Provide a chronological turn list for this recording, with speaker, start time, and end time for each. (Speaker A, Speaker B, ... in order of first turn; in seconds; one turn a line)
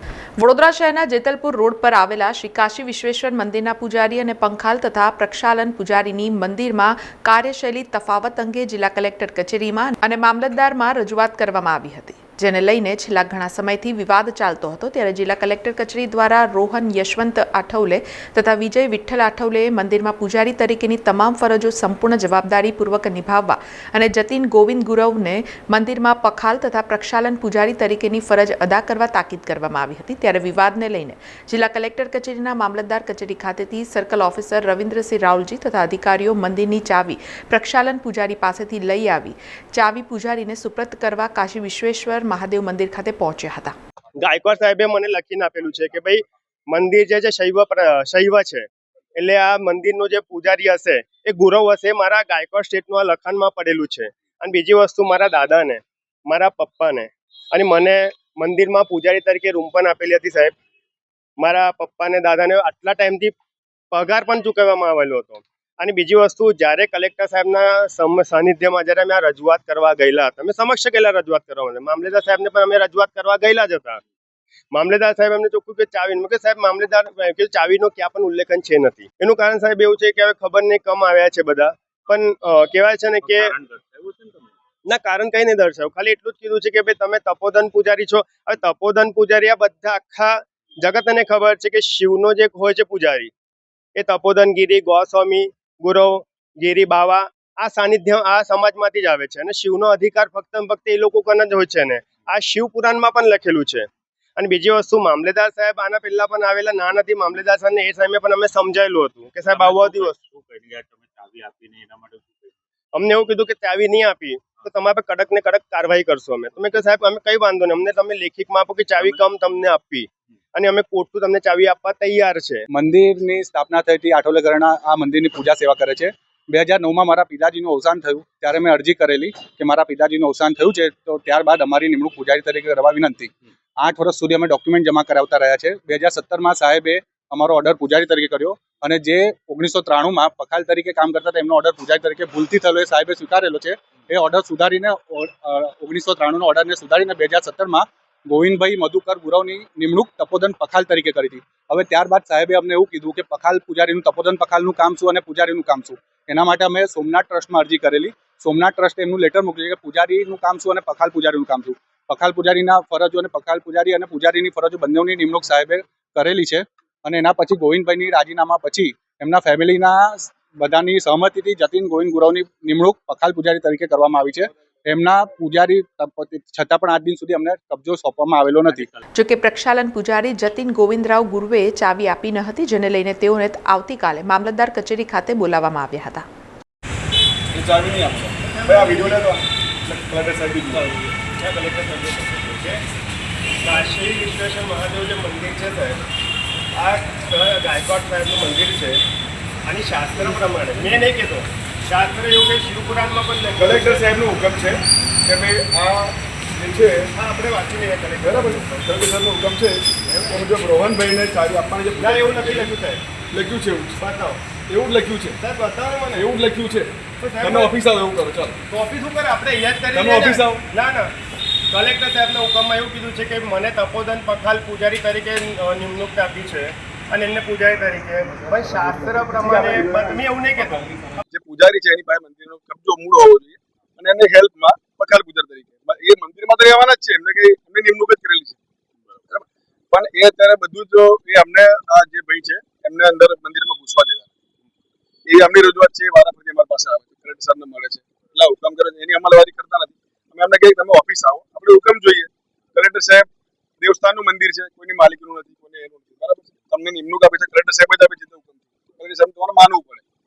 Speaker A: 0.4-43.8
Speaker B: 44.2-60.5
Speaker B: 61.4-63.3
Speaker B: 63.9-74.0
Speaker B: 74.7-83.5
Speaker B: 84.9-93.3
Speaker B: 94.0-110.2
Speaker B: 112.9-122.7
Speaker C: 122.7-178.9
Speaker A: 179.2-186.2
Speaker D: 187.5-191.1
Speaker B: 188.5-189.2
Speaker B: 191.3-192.8
Speaker B: 193.6-196.0
Speaker B: 196.8-199.0
Speaker B: 199.7-204.2
Speaker D: 203.6-207.1
Speaker B: 207.2-208.8
Speaker D: 208.2-212.8
Speaker B: 210.1-210.4
Speaker B: 212.0-213.0
Speaker D: 213.3-214.0
Speaker B: 214.0-214.4
Speaker D: 214.7-215.4
Speaker B: 215.4-216.3
Speaker D: 216.1-218.6
Speaker B: 217.2-217.7
Speaker B: 218.7-221.1
Speaker D: 219.9-220.6
Speaker B: 221.7-230.9
Speaker D: 229.4-230.2
Speaker D: 231.2-238.6
Speaker D: 239.3-244.3
Speaker D: 245.3-253.3
Speaker D: 253.8-260.0